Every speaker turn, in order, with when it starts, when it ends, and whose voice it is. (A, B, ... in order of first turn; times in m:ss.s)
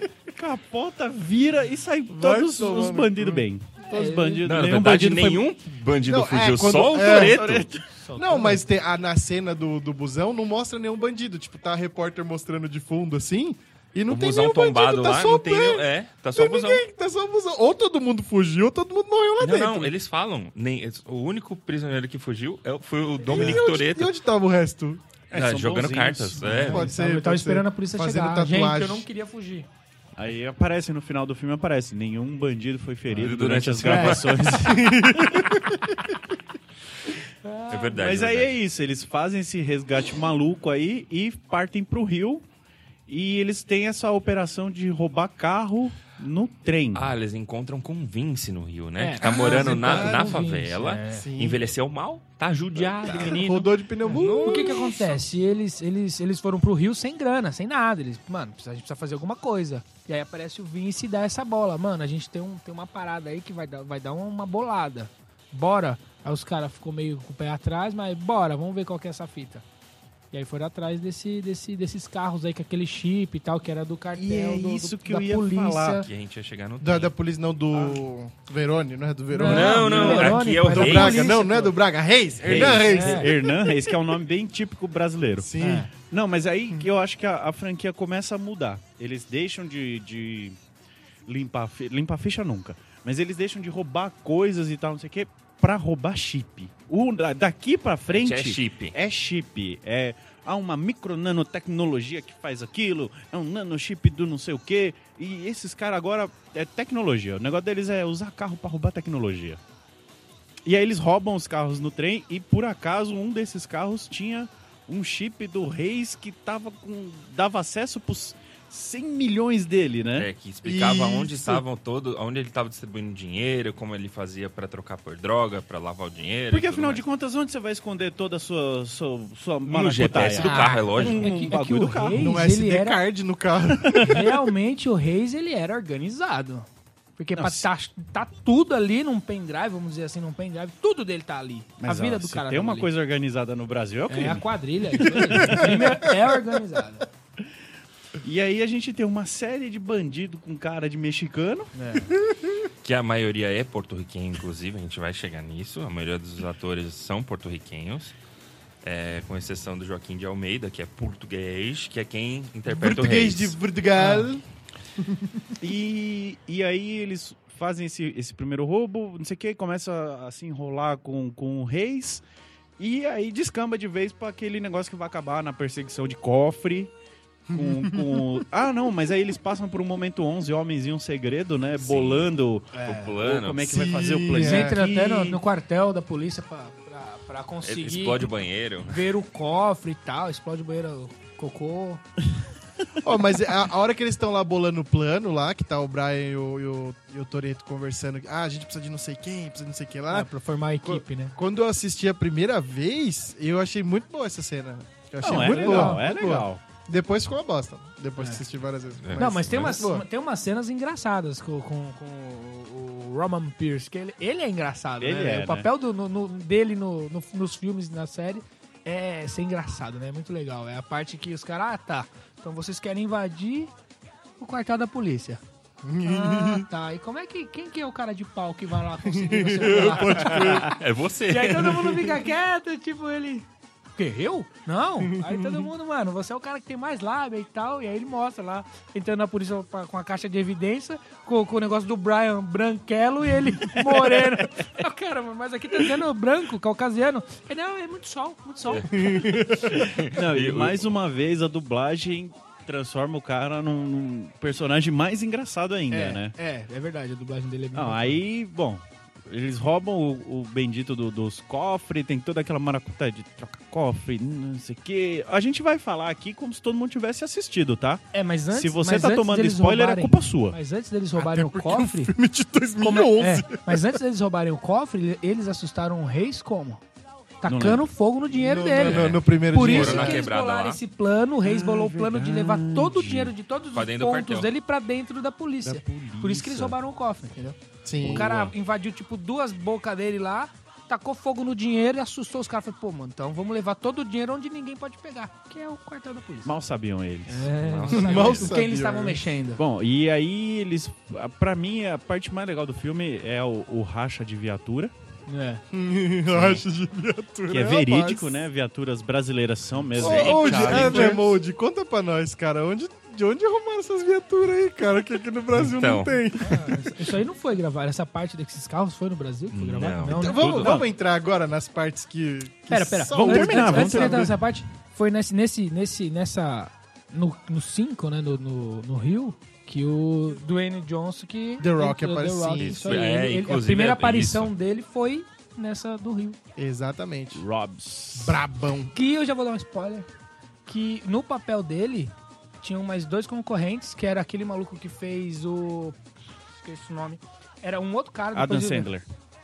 0:00.3-0:05.5 A
0:02.1-0:03.5 B
0:03.9-0:04.5 C
0:04.4-0:07.8 D
0:06.1-0:07.4 B
0:07.1-0:07.9 A
0:07.9-0:08.6 C
0:08.2-0:15.8 B
0:14.1-0:16.8 D
0:16.4-0:19.9 B
0:19.4-0:24.1 D
0:23.2-0:25.1 B
0:25.3-0:26.6 A
0:25.3-0:26.9 D
0:26.4-0:29.7 C
0:26.7-0:29.1 B
0:30.2-0:35.0 A
0:33.1-0:34.5 D
0:33.9-0:34.2 C
0:34.5-0:36.0 B
0:37.4-0:37.9 C
0:37.7-0:38.6 D
0:37.9-0:42.4 A
0:43.1-0:47.1 A
0:46.9-0:55.2 D
0:49.0-0:51.3 C
0:49.2-0:50.4 B
0:51.1-0:51.6 B
0:53.0-0:54.9 B
0:53.0-1:09.6 C
1:10.3-1:16.1 C
1:14.1-1:16.0 A
1:16.0-1:17.1 D
1:16.8-1:23.5 B
1:17.7-1:18.0 A
1:19.3-1:21.7 C
1:19.4-1:21.3 D
1:19.9-1:20.3 A
1:22.4-1:30.6 A
1:22.6-1:23.3 C
1:25.4-1:25.9 B
1:25.6-1:25.9 C
1:31.3-1:49.6 A
1:38.1-1:39.0 D
1:50.7-2:00.3 A
2:00.2-2:07.0 D
2:00.6-2:01.6 B
2:06.5-2:12.3 A
2:09.7-2:11.4 D
2:10.4-2:13.0 C
2:12.2-2:14.3 B
2:13.9-2:14.2 A
2:14.0-2:16.7 C
2:17.2-2:22.9 C
2:17.4-2:17.7 A
2:21.8-2:25.8 A
2:24.1-2:27.1 C
2:25.4-2:25.7 B
2:28.2-2:31.7 A
2:31.7-2:32.2 C
2:32.8-2:38.2 D
2:38.8-2:43.6 D
2:42.7-2:44.4 B
2:44.0-2:44.3 C
2:45.0-2:45.5 B
2:45.6-2:52.2 A
2:52.8-2:56.9 A
2:57.5-3:05.4 A
2:57.5-2:58.2 B
3:01.8-3:02.3 D
3:02.7-3:03.2 C
3:02.8-3:03.6 D
3:03.6-3:04.8 B
3:04.4-3:12.0 C
3:07.6-3:09.0 D
3:13.0-3:20.3 B
3:20.1-3:21.4 C
3:20.8-3:30.0 B
3:25.2-3:26.6 A
3:25.2-3:26.0 C
3:28.2-3:28.4 C
3:29.0-3:29.8 D
3:29.2-3:43.7 C
3:35.0-3:35.7 A
3:44.4-3:45.4 C
3:45.8-3:46.7 B
3:46.0-3:50.8 C
3:49.1-3:50.8 B
3:50.4-3:52.2 D
3:51.3-4:09.1 C
3:55.2-3:55.6 B
4:08.7-4:10.9 D
4:08.9-4:09.8 B
4:09.8-4:16.4 A
4:15.9-4:18.2 C
4:17.7-4:30.6 A
4:28.1-4:32.1 C
4:31.2-4:33.9 B
4:32.8-4:36.8 C
4:37.4-4:56.5 C
4:37.5-4:37.9 A
4:38.3-4:40.2 B
4:38.8-4:40.8 D
4:41.4-4:43.3 A
4:43.7-4:44.5 D
4:45.6-4:46.8 A
4:47.8-4:48.3 B
4:48.0-4:48.5 A
4:56.4-4:57.6 A
4:57.3-4:59.6 C
4:57.6-4:58.6 D
4:57.9-4:59.2 B
4:59.6-5:04.9 A
5:05.3-5:05.6 C
5:05.7-5:08.3 B
5:06.3-5:06.6 D
5:07.5-5:11.4 A
5:09.9-5:11.2 D
5:10.0-5:17.1 B
5:15.5-5:16.2 D
5:16.4-5:20.8 C
5:19.5-5:20.8 D
5:20.1-5:24.3 B
5:20.6-5:20.9 A
5:22.7-5:36.4 C
5:23.1-5:24.4 A
5:31.6-5:33.0 B
5:32.6-5:34.5 D
5:36.6-5:37.4 B
5:37.3-5:38.4 A
5:38.1-5:38.9 B
5:38.9-5:40.1 C
5:40.7-5:46.0 C
5:46.6-5:48.9 C
5:48.3-5:49.0 A